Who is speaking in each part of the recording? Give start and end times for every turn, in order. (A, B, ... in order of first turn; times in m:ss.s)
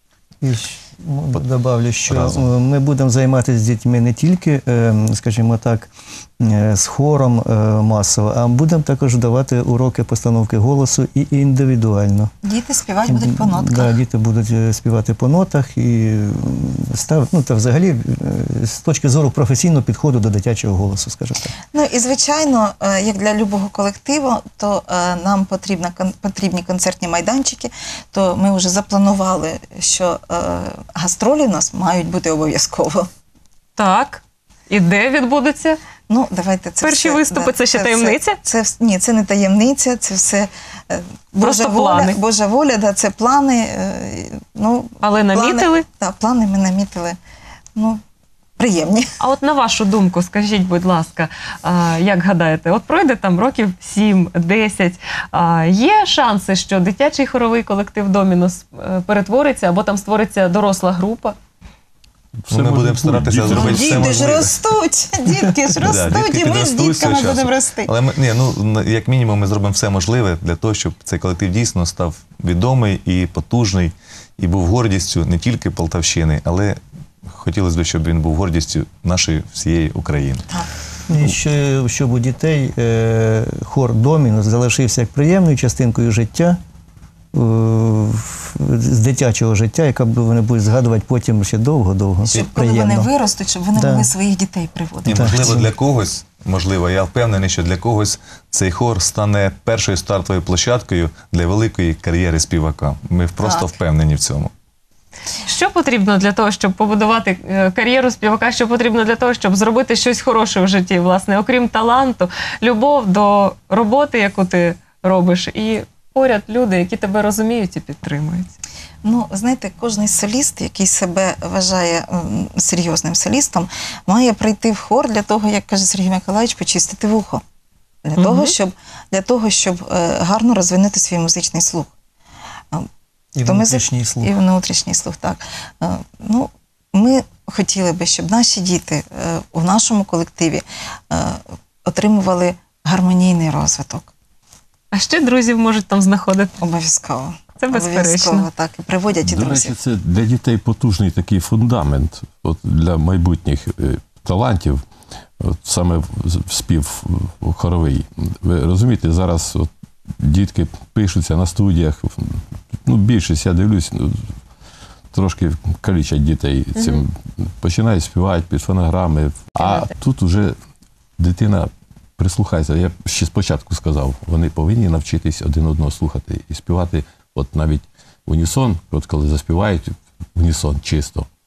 0:00.4-0:12.3 A
0:02.1-0:02.5 B
0:12.4-0:14.0 C
0:13.1-0:21.5 A
0:21.7-0:33.1 C
0:33.8-0:35.8 D
0:36.1-0:47.2 C
0:36.8-0:38.4 D
0:41.4-0:42.2 D
0:45.0-0:45.8 D
0:47.8-0:48.0 C
0:48.6-0:49.1 C
0:49.2-1:01.4 D
1:02.4-1:04.2 E
1:02.5-1:04.6 B
1:03.5-1:07.9 C
1:05.8-1:20.5 B
1:21.1-1:26.6 A
1:27.3-1:33.1 A
1:32.3-1:35.6 C
1:33.8-1:34.1 A
1:35.1-1:44.5 B
1:35.1-1:35.7 A
1:43.4-1:43.7 C
1:45.4-1:58.5 D
1:59.0-2:07.4 C
2:08.0-2:11.9 C
2:08.2-2:08.5 D
2:13.4-2:14.4 A
2:13.5-2:24.1 C
2:24.9-2:26.5 D
2:26.6-2:29.7 C
2:27.6-2:28.5 D
2:29.2-2:34.8 E
2:35.4-2:44.4 E
2:45.1-2:50.6 E
2:46.8-2:47.0 D
2:49.6-2:49.9 D
2:51.2-3:01.3 E